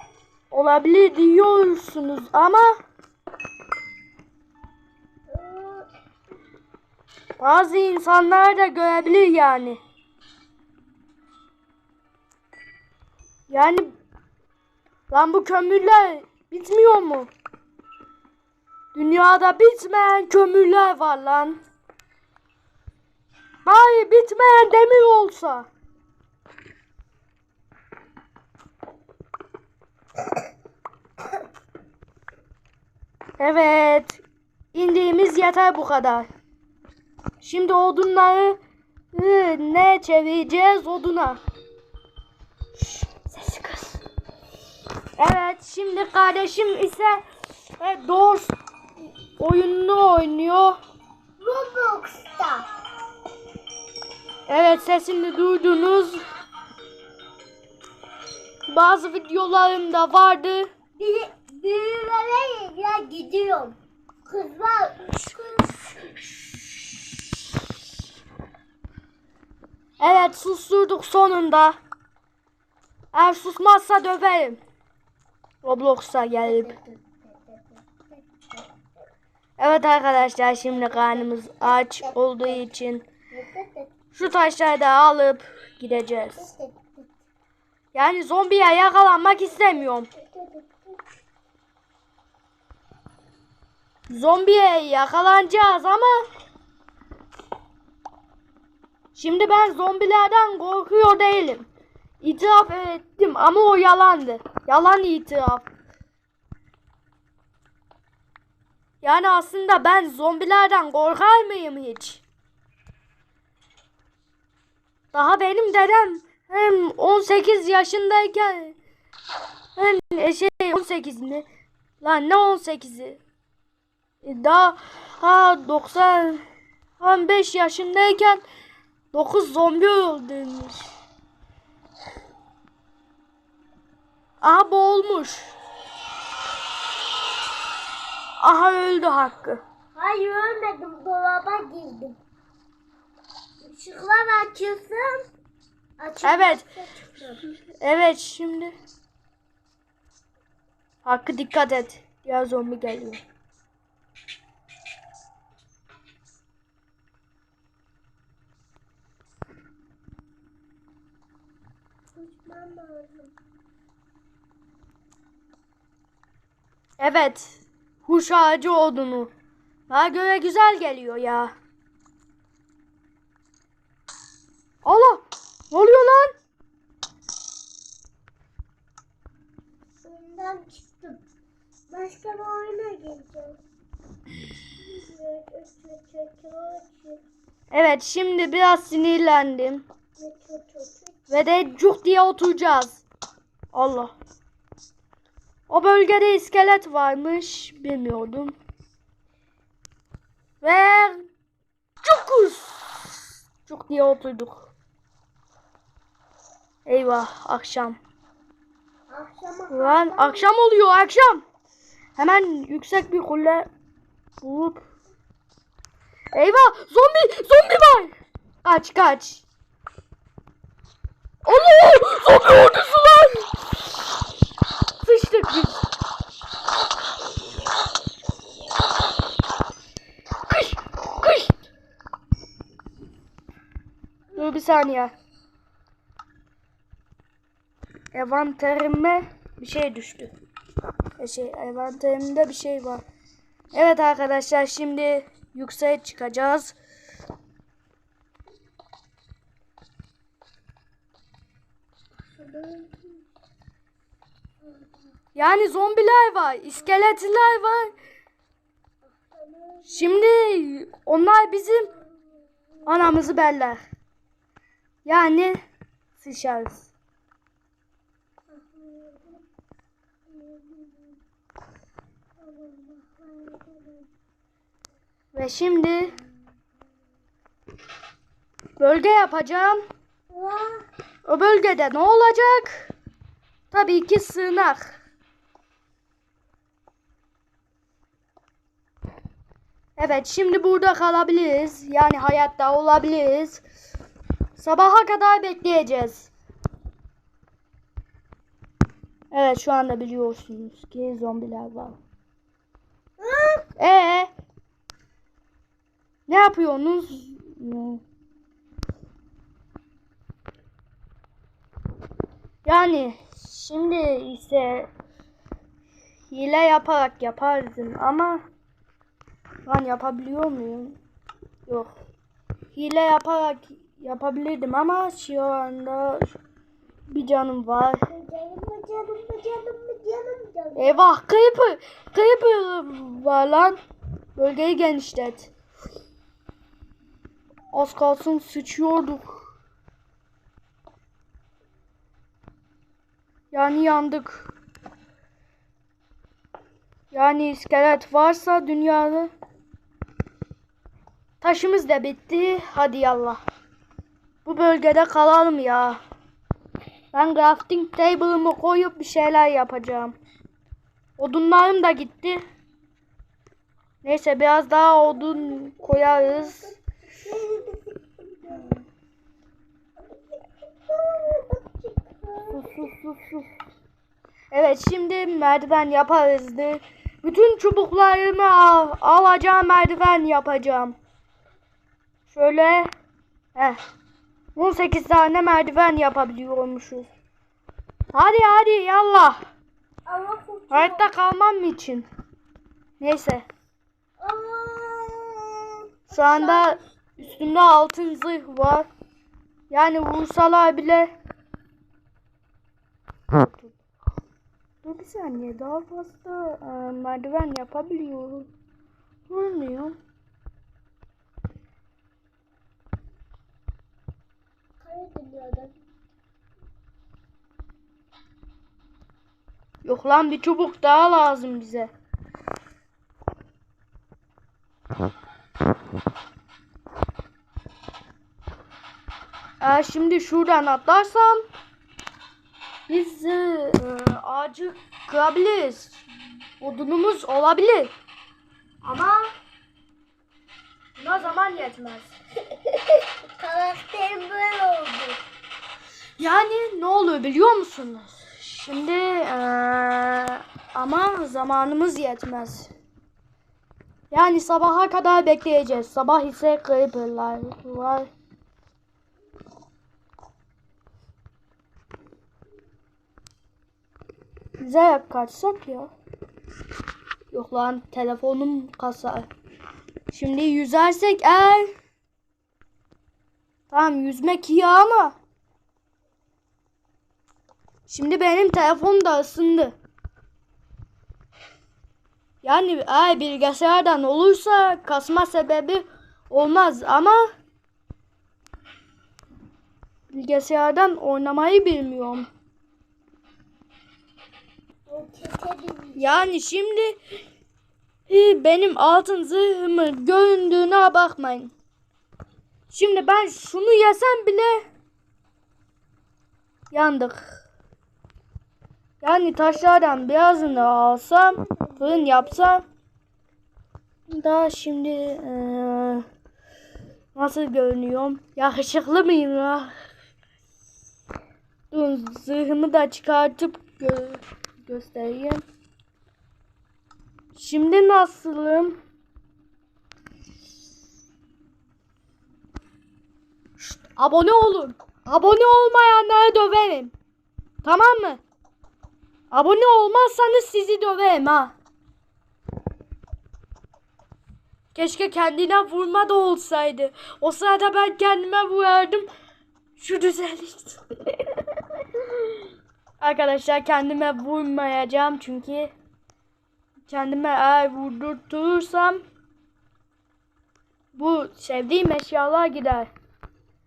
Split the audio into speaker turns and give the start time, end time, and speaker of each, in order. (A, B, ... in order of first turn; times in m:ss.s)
0:00.5-0:02.8 A
0:05.3-0:05.9 B
0:07.4-0:09.8 A
0:13.5-0:13.9 A
0:15.1-0:17.3 A
0:19.0-0:21.6 A
0:23.6-0:25.7 A
0:33.4-0:34.2 A
0:34.7-0:36.3 A
0:37.4-0:38.6 A
0:39.1-0:41.4 A
0:43.0-0:44.0 A
0:45.2-0:47.2 A
0:47.8-0:48.5 A
0:49.4-0:50.8 A
0:51.4-0:52.7 B
0:54.5-0:56.2 A
0:58.7-1:00.7 A
1:01.0-1:06.8 B
1:10.0-1:11.8 A
1:13.1-1:14.6 A
1:15.6-1:16.7 A
1:16.4-1:18.7 B
1:19.6-1:23.1 A
1:21.0-1:22.5 B
1:23.3-1:24.0 B
1:24.1-1:26.5 A
1:26.4-1:27.1 B
1:27.9-1:30.1 A
1:30.1-1:31.0 B
1:34.1-1:36.2 A
1:39.1-1:41.7 A
1:42.2-1:45.6 A
1:49.0-1:52.2 A
1:55.1-1:58.8 A
1:59.8-2:01.4 A
2:02.0-2:03.2 A
2:04.2-2:06.4 A
2:07.0-2:08.4 A
2:09.1-2:10.9 A
2:14.4-2:15.5 A
2:18.4-2:19.6 A
2:20.0-2:22.2 B
2:23.6-2:25.3 B
2:26.0-2:27.4 B
2:26.2-2:26.6 A
2:27.8-2:28.7 A
2:31.0-2:33.2 A
2:42.2-2:43.3 B
2:47.0-2:49.3 A
2:49.9-2:51.5 A
2:54.8-2:56.3 A
3:00.0-3:01.2 B
3:01.9-3:03.6 B
3:04.8-3:07.2 B
3:07.7-3:09.9 A
3:10.2-3:11.2 B
3:11.3-3:13.0 A
3:13.7-3:14.1 A
3:15.7-3:18.6 A
3:20.6-3:21.3 A
3:22.0-3:23.2 A
3:23.7-3:24.7 A
3:26.9-3:28.0 A
3:29.1-3:30.5 B
3:29.7-3:31.4 A
3:32.2-3:33.7 A
3:34.4-3:34.9 A
3:36.3-3:38.1 A
3:38.6-3:39.4 A
3:41.4-3:43.5 A
3:45.0-3:45.8 A
3:50.5-3:51.5 A
3:54.3-3:55.1 A
3:58.1-4:00.3 A
4:01.2-4:03.0 A
4:03.7-4:06.8 A
4:12.4-4:13.2 B
4:15.4-4:17.9 A
4:19.1-4:20.1 B
4:19.9-4:21.9 A
4:22.9-4:23.8 A
4:25.0-4:25.6 A
4:26.2-4:26.9 A
4:28.5-4:29.4 B
4:30.3-4:31.2 B
4:32.4-4:34.1 B
4:35.3-4:36.1 A
4:38.8-4:39.8 A
4:40.3-4:40.8 B
4:41.3-4:42.9 A
4:43.7-4:44.9 A
4:50.0-4:53.6 A
4:54.6-4:56.3 A
4:59.3-5:02.0 A
5:03.2-5:03.6 B
5:03.8-5:04.3 A
5:06.3-5:08.0 A
5:12.6-5:14.9 A
5:16.3-5:18.4 A
5:19.6-5:21.0 A
5:21.7-5:21.9 A
5:22.7-5:26.3 A
5:27.1-5:28.1 A
5:28.1-5:30.9 B
5:30.8-5:33.8 A
5:34.4-5:35.5 A
5:37.7-5:39.4 A
5:43.5-5:44.5 A
5:47.1-5:49.3 A
5:51.4-5:53.4 A
5:54.4-5:56.0 A
5:57.1-6:00.2 A
6:01.2-6:02.4 A
6:04.0-6:06.7 A
6:05.2-6:08.8 B
6:10.9-6:12.9 B
6:12.5-6:13.5 A
6:14.5-6:21.0 A
6:22.3-6:22.9 A
6:24.6-6:27.1 A
6:28.1-6:29.4 A
6:30.1-6:31.1 B
6:30.7-6:32.1 A
6:33.0-6:33.4 A
6:34.2-6:36.8 B
6:36.1-6:38.9 A
6:39.7-6:41.1 A
6:43.3-6:43.8 A
6:44.8-6:48.5 A
6:49.3-6:50.0 A
6:54.8-6:55.8 B
6:59.8-7:01.9 A
7:09.6-7:11.4 A
7:12.9-7:15.9 A
7:16.6-7:17.9 A
7:18.8-7:19.3 A
7:21.0-7:22.1 A
7:22.6-7:25.2 B
7:26.2-7:32.7 A
7:34.1-7:38.1 A
7:44.6-7:45.9 A
7:47.3-7:49.3 A
7:50.1-7:51.7 A
7:53.7-7:55.2 A
7:57.9-7:59.7 A
8:02.4-8:07.2 A
8:10.1-8:12.3 A
8:14.9-8:16.3 B
8:16.0-8:17.0 A
8:18.1-8:21.5 A
8:22.7-8:24.6 A
8:26.7-8:27.2 A
8:29.0-8:32.6 A
8:34.1-8:36.0 A
8:37.2-8:39.7 A
8:41.7-8:45.4 A
8:47.4-8:48.8 A
8:53.6-8:56.9 A
8:57.6-8:58.2 A
8:59.3-9:01.5 A
9:04.7-9:09.1 A
9:09.8-9:12.2 A
9:13.0-9:15.7 A
9:16.9-9:19.0 A
9:20.9-9:22.9 A